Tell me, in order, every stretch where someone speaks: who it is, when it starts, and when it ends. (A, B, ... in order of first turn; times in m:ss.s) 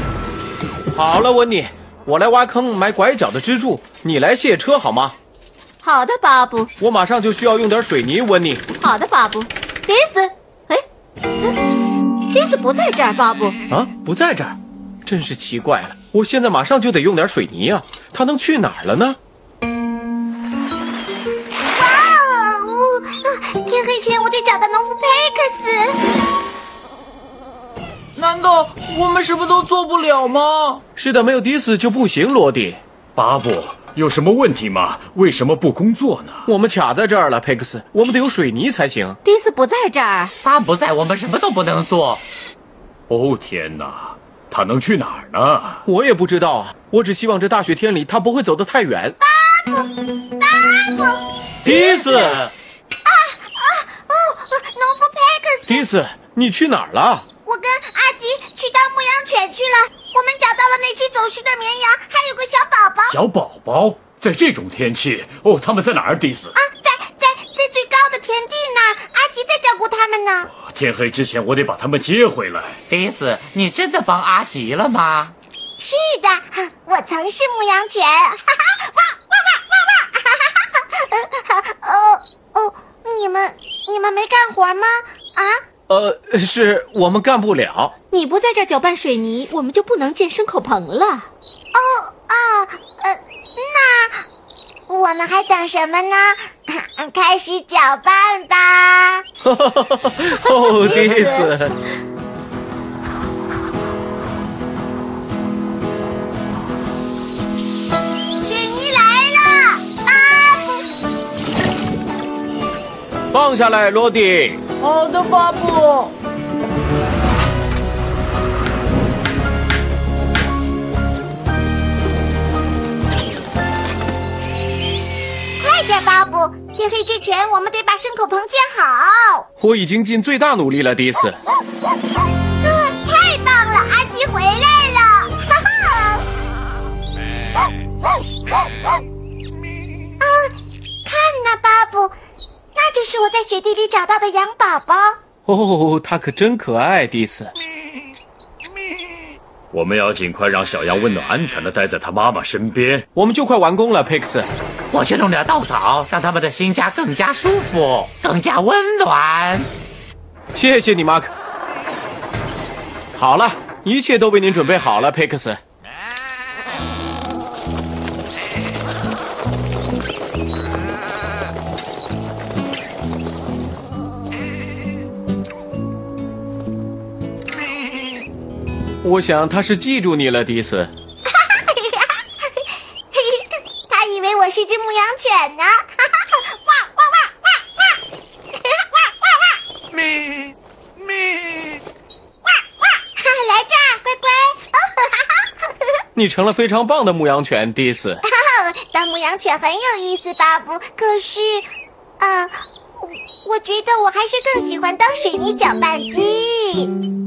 0:00.9-0:05.2 A
0:05.8-0:06.7 B
0:06.8-0:08.6 A
0:08.8-0:10.8 B
0:12.3-0:13.6 B
0:13.7-0:19.2 A
0:21.7-0:26.0 C
0:28.2-0:30.8 D
0:31.0-0:32.8 A
0:33.2-0:36.5 E
0:36.5-0:39.2 A
0:39.2-0:40.3 B
0:40.4-0:42.2 F
0:43.1-0:45.8 E
0:45.8-0:49.2 A
0:49.2-0:52.1 C
0:51.6-0:52.4 A
0:52.1-0:52.5 F
0:53.0-0:55.9 C
0:55.7-0:57.2 A
0:57.4-1:03.2 C
1:03.1-1:06.6 E
1:06.6-1:10.5 C
1:10.7-1:12.8 E
1:12.9-1:15.3 F
1:15.8-1:25.6 C
1:25.9-1:27.9 A
1:28.1-1:31.3 B
1:31.7-1:34.2 C
1:34.9-1:39.2 C
1:39.4-1:41.8 A
1:40.4-1:41.5 C
1:41.1-1:41.5 F
1:48.4-1:50.8 C
1:53.3-1:54.6 A
1:54.8-1:56.1 D
2:05.6-2:09.5 C
2:09.6-2:11.4 A
2:12.6-2:16.2 C
2:20.2-2:20.5 C
2:21.0-2:22.1 C
2:22.8-2:25.2 C
2:25.5-2:27.5 A
2:29.7-2:33.0 E
2:33.2-2:34.5 A
2:34.9-2:39.7 F
2:40.6-2:41.3 A
2:43.2-2:45.6 A
2:59.0-3:00.9 A
3:01.3-3:07.6 C
3:13.2-3:15.8 C
3:16.2-3:18.2 A
3:18.2-3:21.7 C
3:22.2-3:26.9 C